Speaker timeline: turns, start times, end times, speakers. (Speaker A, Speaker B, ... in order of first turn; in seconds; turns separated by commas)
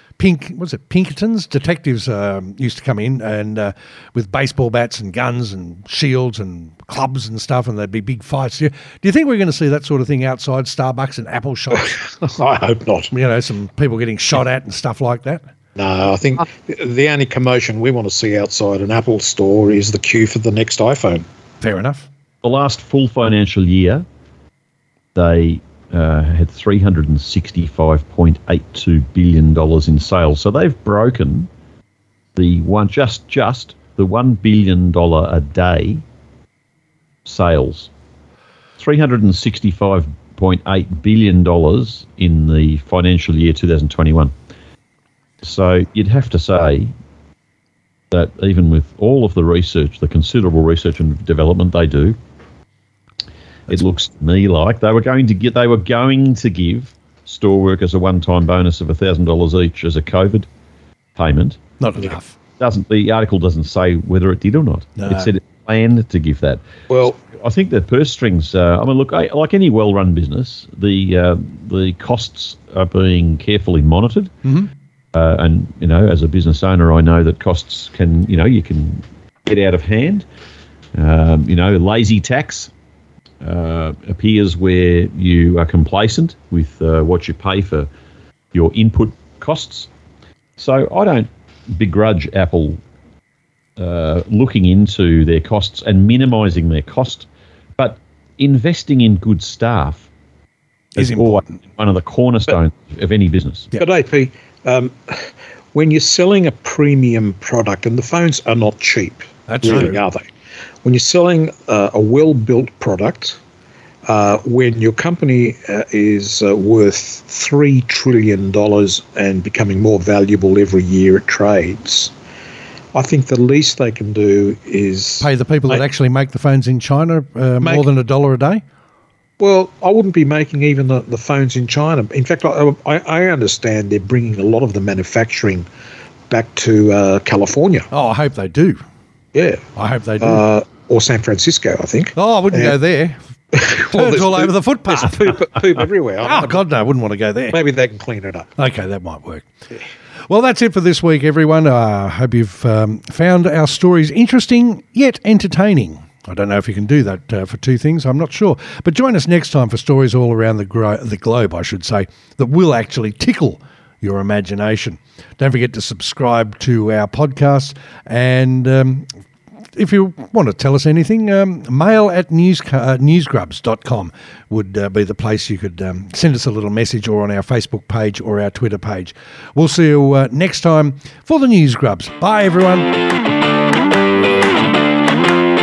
Speaker A: 0.2-12.0, Speaker B: 11.8-13.1, Speaker A: 13.1-15.4, Speaker B: 15.8-21.2, Speaker A: 21.6-22.1, Speaker C: 22.4-24.1, Speaker C: 25.1-31.5, Speaker C: 32.4-36.0, Speaker C: 37.2-37.9, Speaker C: 38.8-44.3, Speaker C: 45.4-46.9, Speaker C: 48.1-52.2, Speaker C: 53.7-60.5, Speaker C: 61.2-61.6, Speaker A: 61.8-62.4, Speaker C: 62.6-74.3, Speaker A: 65.0-65.3, Speaker B: 66.9-67.2, Speaker A: 74.5-74.7, Speaker C: 75.1-80.2, Speaker C: 81.0-82.7, Speaker C: 83.4-87.9, Speaker C: 88.5-89.9, Speaker C: 90.6-92.8, Speaker C: 93.8-97.3, Speaker C: 97.8-100.1, Speaker A: 101.0-101.5, Speaker C: 101.0-103.7, Speaker B: 103.8-110.3, Speaker A: 109.5-110.0, Speaker B: 110.8-113.4, Speaker B: 114.1-122.1, Speaker B: 122.9-125.8, Speaker A: 125.2-128.6, Speaker B: 129.4-135.7, Speaker B: 136.3-137.9, Speaker A: 137.9-138.8, Speaker B: 139.3-139.6, Speaker A: 139.8-140.4, Speaker B: 140.2-142.8, Speaker A: 142.2-143.2, Speaker B: 143.5-146.6, Speaker A: 143.8-145.3, Speaker A: 146.2-147.6, Speaker B: 147.5-148.5, Speaker A: 148.6-149.5, Speaker A: 150.3-169.1, Speaker A: 169.8-182.9